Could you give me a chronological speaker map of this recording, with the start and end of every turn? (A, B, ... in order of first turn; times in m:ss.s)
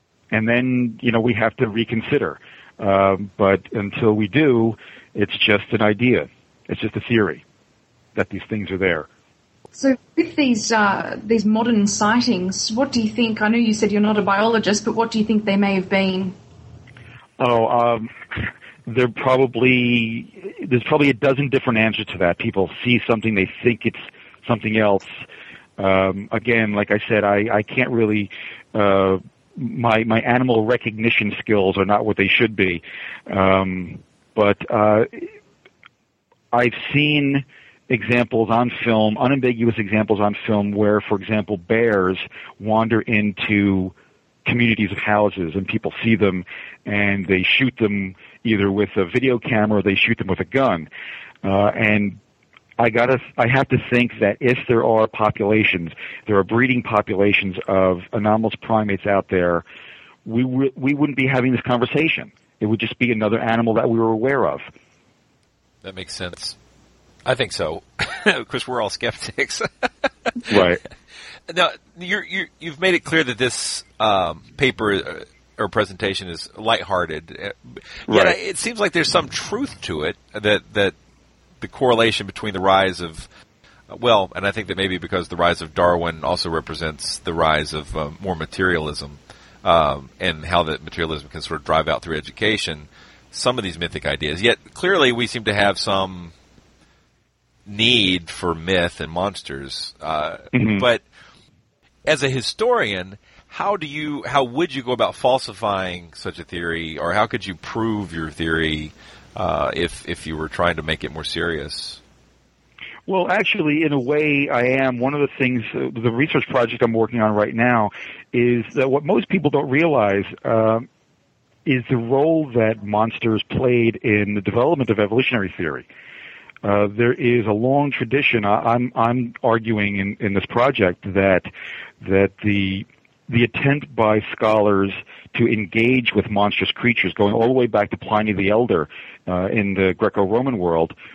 0:00.3-0:07.4 A
0:08.2-0:09.1 A
0:09.7-0:16.4 B
0:17.4-0:18.1 A
0:18.9-0:25.2 A
0:25.8-0:35.3 A
0:36.5-0:43.9 A
0:44.4-0:50.9 A
0:51.4-0:52.2 A
0:52.8-0:59.6 A
1:00.2-1:04.7 A
1:05.8-1:06.6 C
1:07.2-1:09.9 C
1:10.5-1:10.8 A
1:11.5-1:21.0 C
1:18.1-1:18.4 A
1:21.6-1:23.3 C
1:23.9-1:36.3 C
1:37.7-1:41.0 C
1:40.5-1:40.8 A
1:42.1-1:52.0 C
1:53.1-2:00.9 A
2:01.7-2:05.9 A
2:06.6-2:11.5 A
2:12.0-2:20.9 A